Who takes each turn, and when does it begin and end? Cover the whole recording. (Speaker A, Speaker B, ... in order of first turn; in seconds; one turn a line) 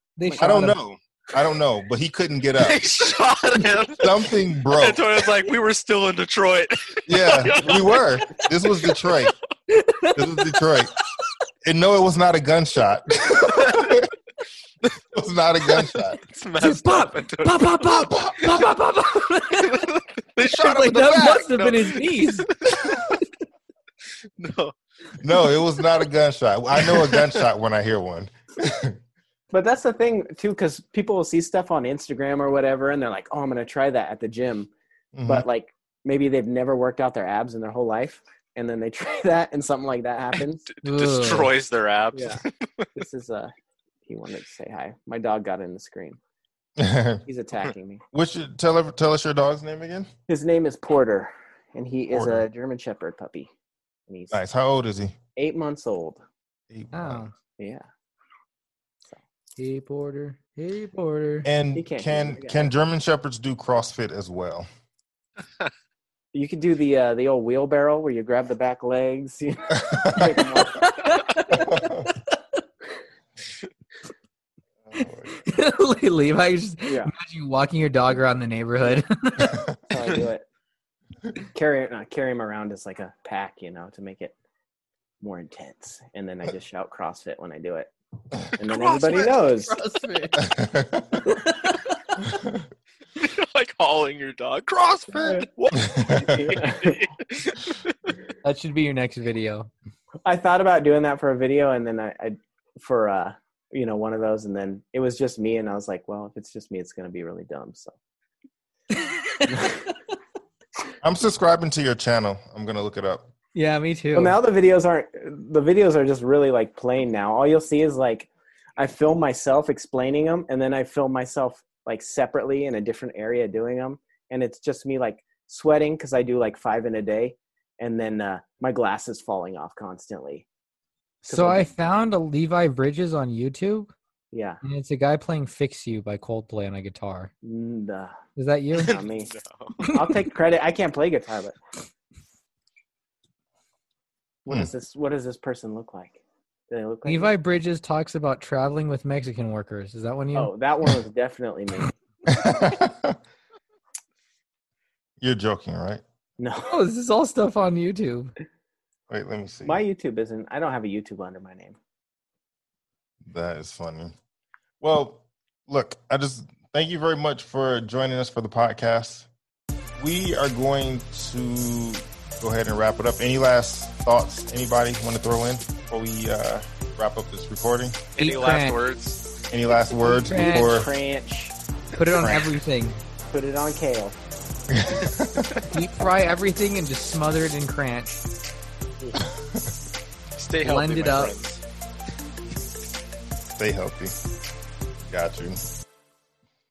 Speaker A: 0.2-0.8
Speaker B: 0.4-2.8
Speaker C: 2.6-8.4
Speaker B: 3.9-5.0
Speaker B: 7.1-9.3
Speaker A: 9.7-10.5
Speaker B: 10.1-10.9
Speaker B: 11.6-14.1
Speaker C: 13.7-14.0
Speaker B: 15.1-16.2
Speaker C: 16.2-18.2
Speaker A: 16.6-19.9
Speaker C: 19.7-22.9
Speaker A: 20.5-22.4
Speaker B: 20.6-21.4
Speaker C: 24.4-24.7
Speaker B: 25.2-29.0
Speaker C: 26.8-27.4
Speaker D: 29.5-34.7
Speaker B: 35.1-35.5
Speaker D: 35.3-40.6
Speaker C: 40.7-42.9
Speaker A: 40.8-41.5
Speaker D: 42.1-42.4
Speaker D: 43.0-43.5
Speaker D: 44.0-46.2
Speaker B: 46.8-47.2
Speaker D: 47.2-48.0
Speaker B: 48.1-50.1
Speaker D: 50.3-53.5
Speaker B: 52.1-52.4
Speaker D: 54.1-54.4
Speaker B: 54.3-55.1
Speaker D: 55.4-56.2
Speaker B: 56.7-57.2
Speaker A: 56.9-57.3
Speaker D: 57.6-57.8
Speaker A: 59.6-61.5
Speaker B: 61.4-64.7
Speaker D: 61.7-62.7
Speaker D: 66.3-71.2
Speaker B: 69.8-70.4
Speaker A: 70.6-72.4
Speaker B: 71.5-72.1
Speaker B: 74.8-75.4
Speaker A: 75.0-79.6
Speaker D: 76.9-77.1
Speaker D: 79.9-80.4
Speaker D: 81.5-84.3
Speaker D: 85.2-87.9
Speaker D: 88.5-89.7
Speaker A: 88.6-90.5
Speaker B: 90.4-91.2
Speaker A: 91.2-92.2
Speaker B: 92.3-92.6
Speaker C: 93.2-97.9
Speaker B: 95.9-96.3
Speaker D: 96.1-97.0
Speaker A: 98.4-99.7
Speaker D: 100.2-107.9
Speaker A: 108.9-109.8
Speaker B: 111.0-113.3
Speaker A: 113.5-114.4
Speaker D: 114.1-130.4
Speaker D: 131.3-131.7
Speaker A: 131.3-133.9
Speaker D: 134.3-134.6
Speaker A: 134.6-137.3
Speaker D: 137.4-138.2
Speaker A: 138.4-138.9
Speaker C: 138.8-139.7
Speaker D: 138.8-139.3
Speaker A: 139.8-140.1
Speaker D: 139.9-141.6
Speaker D: 144.4-147.3
Speaker A: 147.1-150.5
Speaker D: 150.3-151.9
Speaker B: 152.3-153.2
Speaker B: 155.2-156.0
Speaker D: 156.4-156.8
Speaker A: 156.7-158.3
Speaker B: 159.1-159.8
Speaker D: 159.6-161.8
Speaker B: 163.2-164.1
Speaker B: 164.8-169.3
Speaker B: 170.0-178.0
Speaker C: 178.2-179.2
Speaker A: 178.2-178.8
Speaker B: 179.5-180.9
Speaker D: 180.0-181.5
Speaker A: 180.2-180.8
Speaker A: 181.9-183.0
Speaker B: 182.2-182.5
Speaker D: 183.3-184.2
Speaker B: 184.7-185.5
Speaker A: 185.7-188.2
Speaker C: 190.4-191.6
Speaker A: 190.6-191.3
Speaker B: 193.6-194.2
Speaker B: 195.1-195.6